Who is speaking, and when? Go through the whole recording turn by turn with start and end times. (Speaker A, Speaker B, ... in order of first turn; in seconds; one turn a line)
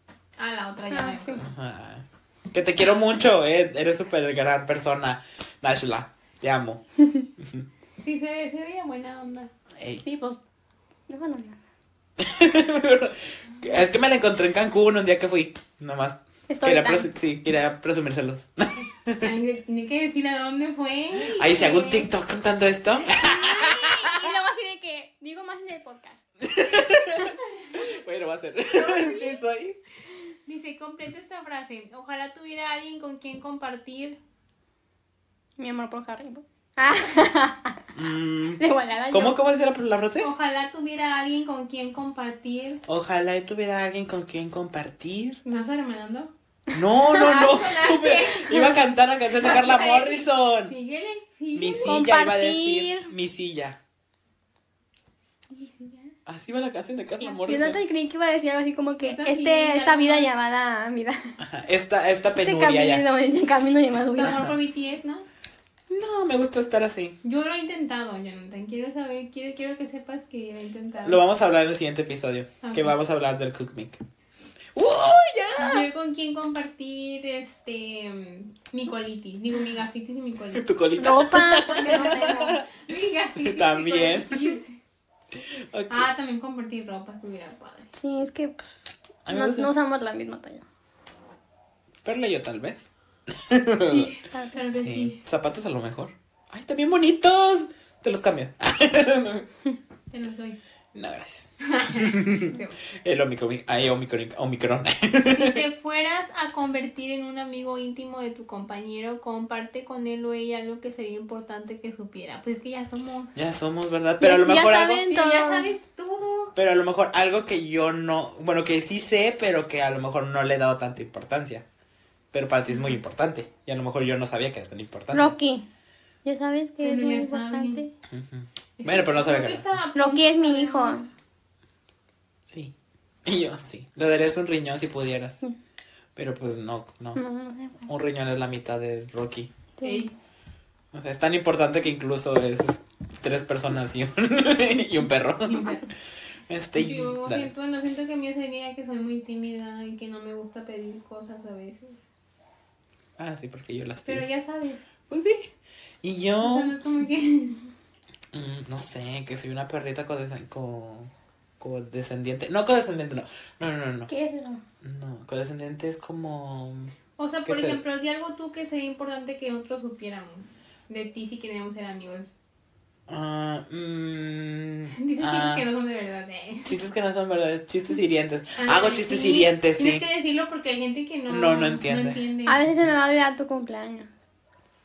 Speaker A: 0.4-1.4
Speaker B: 0.9-1.4
Speaker C: 1.4-6.8
Speaker C: 7.4-7.7
Speaker A: 8.0-9.5
Speaker C: 9.8-10.0
Speaker B: 10.0-10.4
Speaker B: 11.1-11.6
Speaker C: 12.2-19.3
Speaker B: 16.5-17.1
Speaker A: 19.2-22.1
Speaker C: 21.2-24.3
Speaker B: 23.1-26.2
Speaker C: 26.4-29.8
Speaker A: 27.5-27.8
Speaker A: 28.7-29.4
Speaker A: 30.4-34.2
Speaker B: 35.6-37.9
Speaker C: 37.9-40.3
Speaker B: 38.6-39.4
Speaker A: 40.2-42.8
Speaker C: 42.9-45.4
Speaker A: 45.4-46.3
Speaker C: 46.7-50.7
Speaker A: 47.1-48.8
Speaker A: 49.4-51.9
Speaker C: 51.5-53.8
Speaker B: 51.8-53.1
Speaker A: 55.5-56.1
Speaker C: 56.2-57.8
Speaker B: 57.5-61.3
Speaker A: 59.0-60.3
Speaker C: 61.4-63.0
Speaker B: 62.4-64.5
Speaker A: 64.2-65.2
Speaker C: 65.9-67.2
Speaker A: 67.2-71.2
Speaker C: 71.0-74.0
Speaker A: 72.6-73.0
Speaker C: 74.7-75.9
Speaker A: 75.6-80.7
Speaker C: 80.5-82.8
Speaker B: 81.0-82.5
Speaker A: 81.7-84.8
Speaker C: 83.4-84.6
Speaker C: 85.3-86.1
Speaker A: 85.9-87.9
Speaker B: 87.9-88.6
Speaker C: 89.2-89.7
Speaker B: 89.3-90.6
Speaker C: 92.0-94.1
Speaker A: 93.8-95.2
Speaker B: 94.3-94.6
Speaker C: 94.7-99.5
Speaker A: 100.1-100.6
Speaker C: 100.9-105.6
Speaker A: 101.6-102.7
Speaker A: 105.3-113.3
Speaker C: 113.3-115.1
Speaker B: 114.2-115.8
Speaker A: 115.0-116.5
Speaker C: 116.5-121.6
Speaker C: 122.3-125.3
Speaker B: 125.1-125.6
Speaker B: 126.2-127.9
Speaker A: 126.8-127.8
Speaker C: 128.1-129.7
Speaker A: 128.8-131.1
Speaker B: 129.9-131.1
Speaker C: 132.5-132.7
Speaker C: 133.2-135.4
Speaker C: 136.2-137.2
Speaker B: 137.1-137.9
Speaker C: 137.9-139.5
Speaker B: 139.8-140.1
Speaker A: 139.8-140.1
Speaker C: 140.9-145.8
Speaker A: 145.5-145.9
Speaker C: 146.5-147.5
Speaker A: 146.7-152.0
Speaker C: 153.2-154.2
Speaker A: 154.0-154.9
Speaker C: 155.1-155.5
Speaker C: 156.0-156.8
Speaker A: 156.4-157.6
Speaker C: 158.3-164.1
Speaker B: 164.1-164.6
Speaker C: 164.8-166.9
Speaker A: 167.2-172.3
Speaker C: 167.4-167.8
Speaker C: 173.1-175.7
Speaker A: 175.0-176.8
Speaker C: 176.7-180.0
Speaker A: 178.6-182.6
Speaker C: 181.3-182.2
Speaker B: 182.4-184.1